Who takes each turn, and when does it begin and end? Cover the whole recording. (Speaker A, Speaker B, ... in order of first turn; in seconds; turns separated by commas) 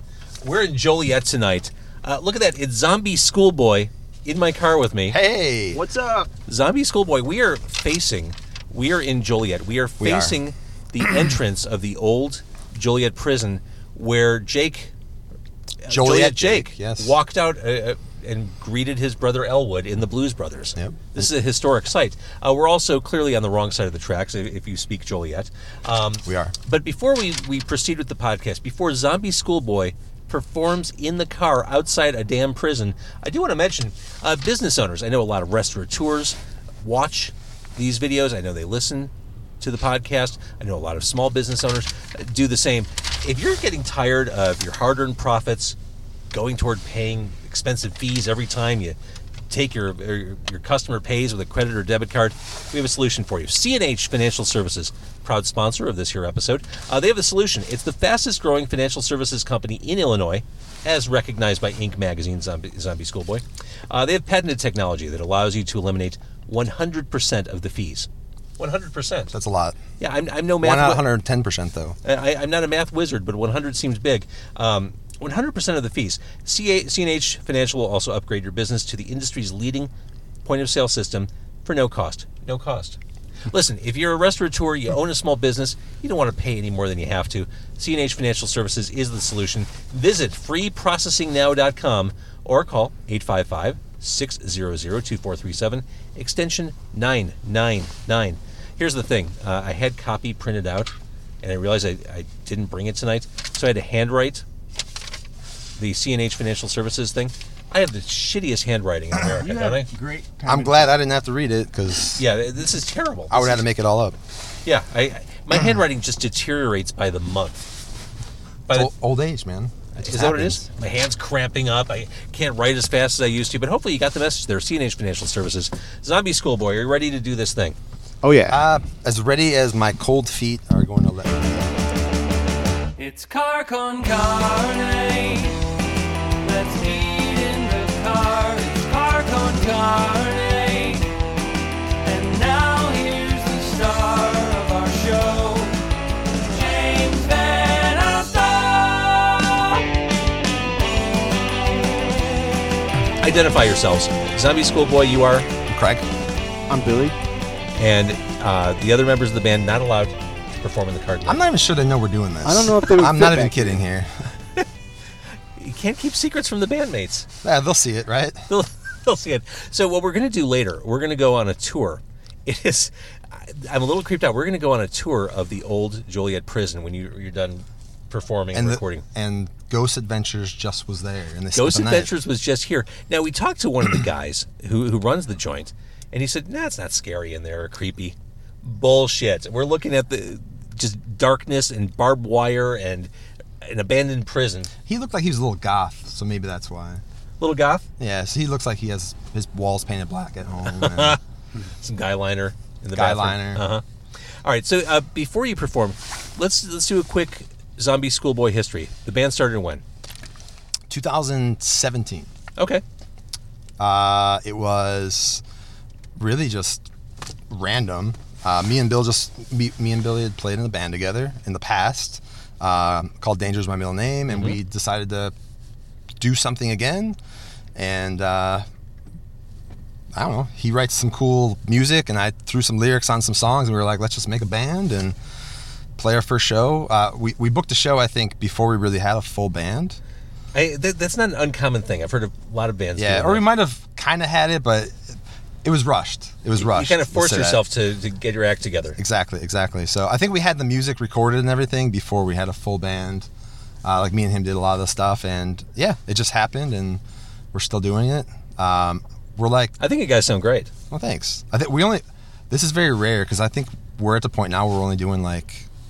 Speaker A: 0.4-5.2, Speaker B: 5.1-5.8, Speaker C: 5.7-6.3, Speaker A: 6.5-14.9, Speaker B: 10.0-10.4, Speaker A: 15.8-45.8, Speaker B: 15.9-17.2, Speaker B: 20.8-21.3, Speaker B: 26.2-26.5, Speaker A: 46.3-49.0, Speaker A: 49.5-69.3, Speaker B: 69.3-69.8, Speaker A: 70.0-71.1, Speaker B: 70.6-72.0, Speaker A: 72.0-79.9, Speaker A: 80.4-104.4, Speaker A: 105.8-109.9, Speaker C: 109.4-110.9, Speaker B: 110.5-112.2, Speaker A: 112.2-113.6, Speaker B: 113.3-114.2, Speaker A: 114.6-117.7, Speaker B: 118.7-120.6, Speaker A: 119.9-127.8, Speaker C: 128.2-128.6, Speaker B: 128.5-131.8, Speaker D: 133.0-135.6, Speaker D: 136.4-141.3, Speaker D: 142.0-145.9, Speaker D: 146.5-149.9, Speaker A: 153.2-155.5, Speaker B: 155.7-156.0, Speaker C: 156.7-157.2, Speaker A: 157.8-161.4, Speaker B: 161.2-164.3, Speaker C: 162.4-163.8, Speaker A: 165.6-167.3, Speaker B: 167.4-168.5, Speaker A: 168.5-179.0, Speaker B: 178.5-182.1, Speaker A: 181.5-193.1, Speaker A: 193.6-194.7, Speaker B: 194.9-197.0, Speaker A: 197.4-197.8, Speaker B: 198.0-201.2, Speaker A: 200.7-201.2, Speaker A: 201.8-203.8, Speaker B: 202.9-203.6, Speaker A: 204.4-209.8, Speaker B: 210.9-212.3, Speaker A: 212.6-212.8, Speaker B: 213.8-215.4, Speaker B: 216.2-216.8, Speaker B: 217.5-225.3, Speaker B: 226.2-227.2, Speaker B: 227.8-228.6, Speaker B: 230.2-235.2, Speaker B: 236.0-240.0, Speaker A: 240.5-243.4, Speaker B: 243.0-247.6, Speaker A: 246.6-249.0, Speaker B: 249.0-253.3, Speaker B: 253.8-257.0, Speaker B: 257.5-259.8, Speaker A: 259.8-260.7, Speaker B: 260.9-265.7